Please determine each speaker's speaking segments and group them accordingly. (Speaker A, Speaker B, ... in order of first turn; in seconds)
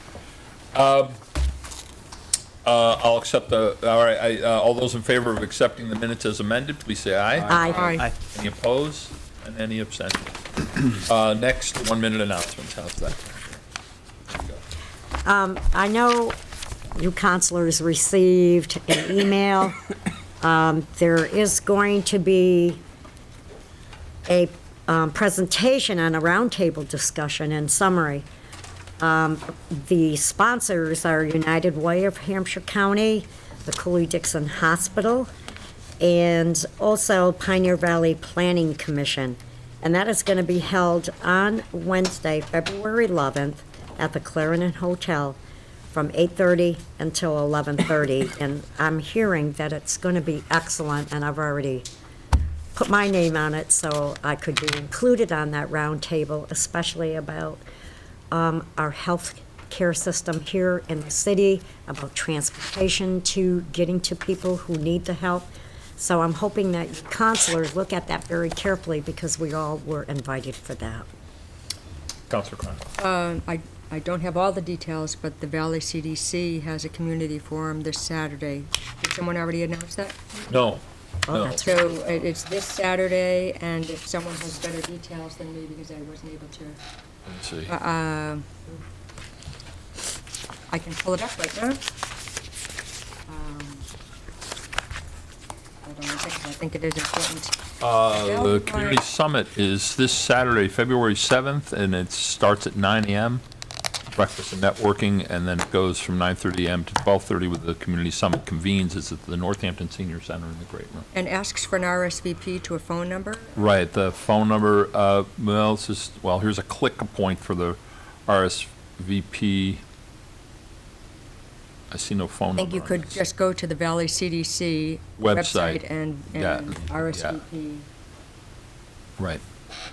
Speaker A: 0.7-1.2, 2.6-13.6, 14.3-14.6, 72.3-72.8, 80.5-81.7, 87.2-87.7, 97.8-103.4, 104.1-111.1, 113.5-119.8, 121.9-123.2, 125.2-127.4
Speaker B: 7.5-8.0, 15.2-16.4, 16.9-19.8, 20.4-22.8, 24.2-28.2, 29.0-35.3, 36.0-45.4, 45.9-51.9, 52.7-57.6, 58.3-71.1, 81.3-81.9
Speaker C: 7.8-8.0, 73.0-80.2, 81.6-86.8, 87.7-88.5, 90.7-91.8, 93.3-93.9, 95.8-99.0, 111.1-113.5, 122.5-127.8